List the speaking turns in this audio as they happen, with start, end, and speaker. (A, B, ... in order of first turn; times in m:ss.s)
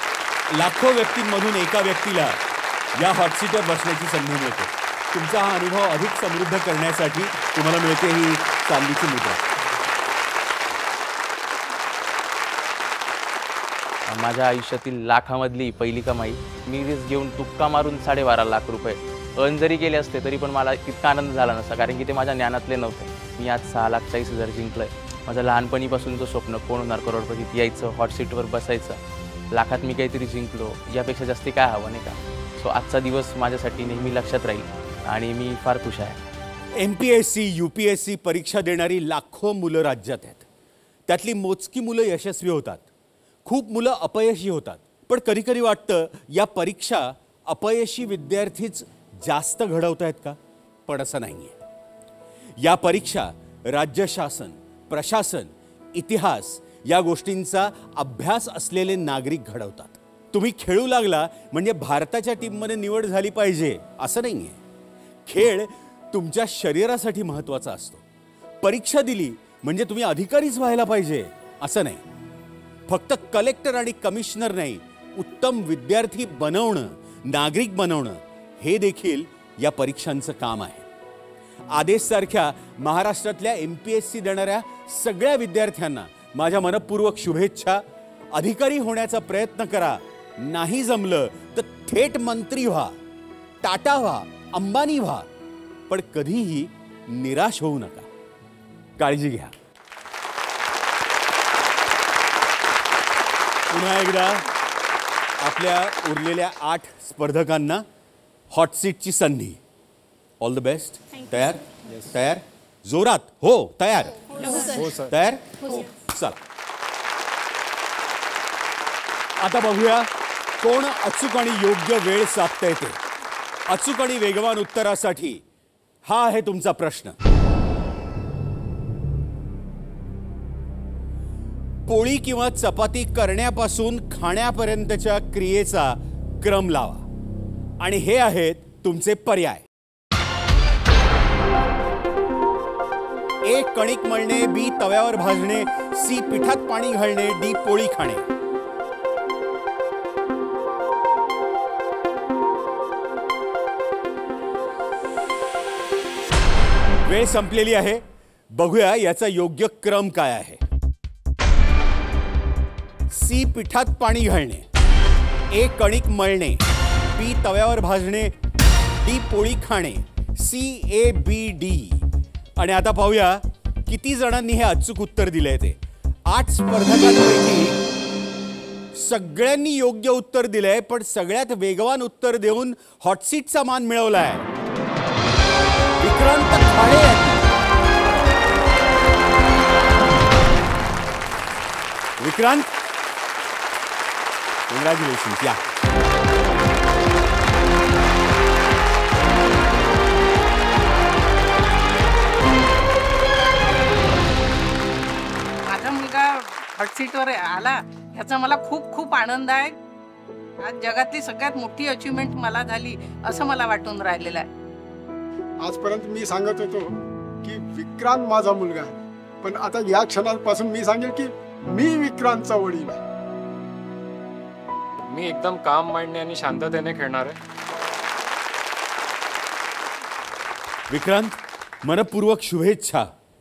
0:00.5-0:02.4 A
0:03.0-0:09.5 A
0:14.1-0:29.0 B
0:29.5-0:36.2 B
0:36.7-0:40.5 A
0:41.1-0:42.8 A
0:43.4-0:51.6 A
0:52.6-1:04.6 A
1:05.3-1:08.0 A
1:08.6-1:12.0 A
1:12.9-1:20.9 A
1:21.7-1:33.0 A
1:33.6-1:35.3 A
1:35.9-1:38.1 A
1:39.0-1:39.5 A
1:43.7-1:44.4 A
1:45.4-1:47.9 A
1:48.5-1:49.6 A
1:50.4-1:56.4 A
1:54.5-1:55.1 C
1:59.4-2:00.1 A
2:00.6-2:03.0 A
2:03.7-2:05.4 A
2:06.0-2:07.2 A
2:11.9-2:17.0 A
2:17.8-2:19.6 A
2:23.4-2:28.3 A
2:37.0-2:40.6 A
2:43.1-2:44.6 A
2:45.5-2:48.3 A
2:49.0-2:52.0 A
2:52.6-2:57.8 A
2:58.9-3:04.5 A
3:06.0-3:07.5 A
3:12.2-3:12.7 A
3:14.7-3:15.7 A
3:25.6-3:29.8 D
3:30.6-3:34.5 D
3:35.6-3:43.0 E
3:45.1-3:47.4 C
3:50.9-3:53.1 A